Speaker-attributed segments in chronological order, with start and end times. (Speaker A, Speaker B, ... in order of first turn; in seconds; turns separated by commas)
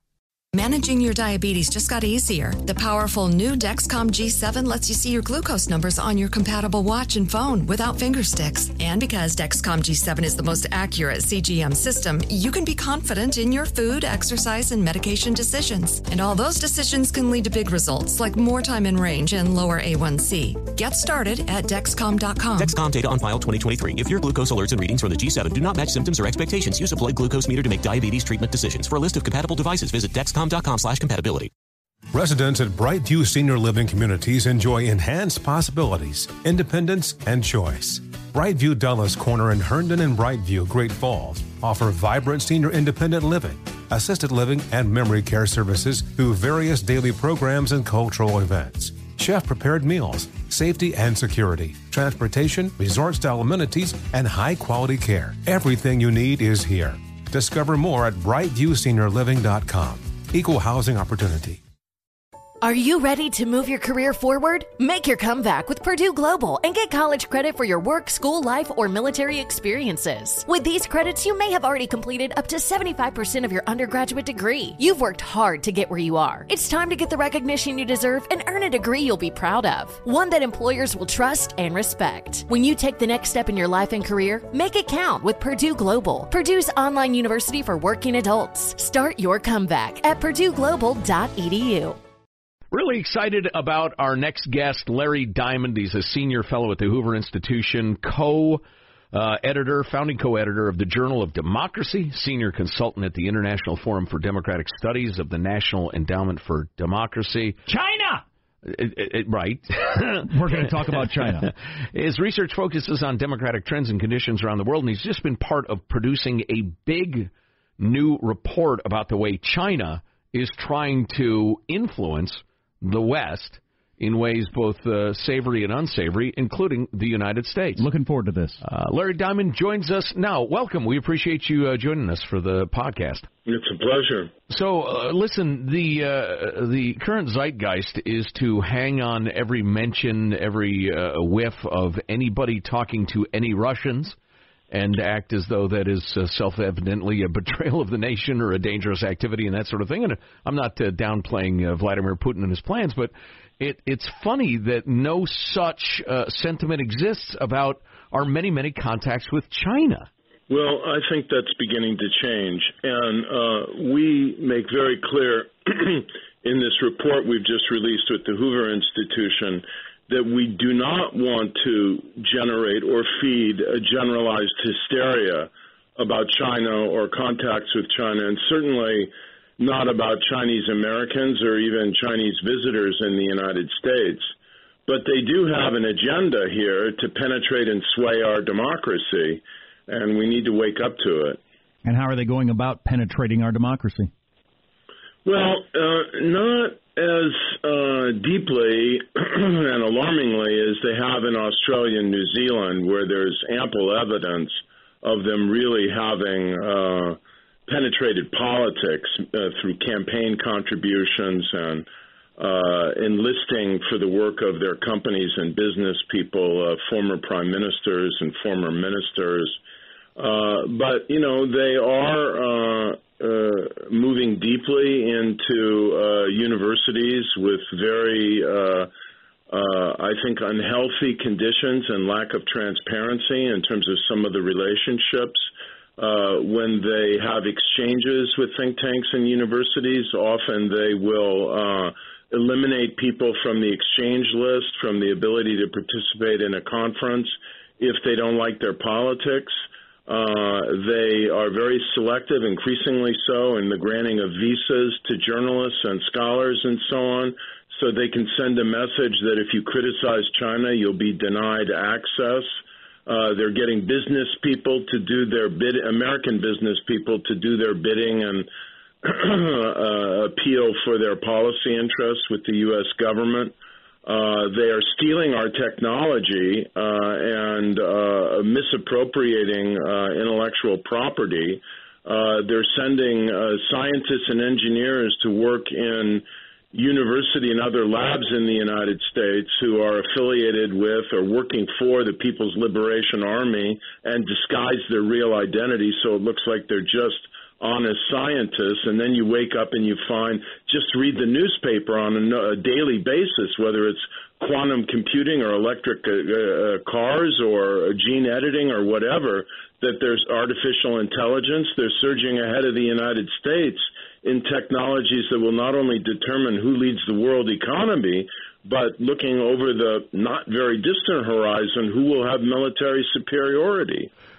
Speaker A: 0.5-22.7, Speaker B: 22.6-31.5, Speaker C: 32.1-61.6, Speaker D: 62.6-92.0, Speaker E: 92.7-107.6, Speaker F: 107.7-108.2, Speaker E: 108.6-127.8, Speaker F: 110.3-111.5, Speaker F: 127.8-128.6, Speaker E: 128.6-133.3, Speaker G: 133.4-134.3, Speaker E: 134.5-144.2, Speaker E: 144.7-160.1, Speaker G: 160.5-184.3, Speaker G: 184.8-191.4, Speaker F: 191.8-194.1, Speaker G: 195.2-219.6, Speaker G: 220.2-228.9, Speaker G: 229.5-268.5, Speaker G: 269.0-324.1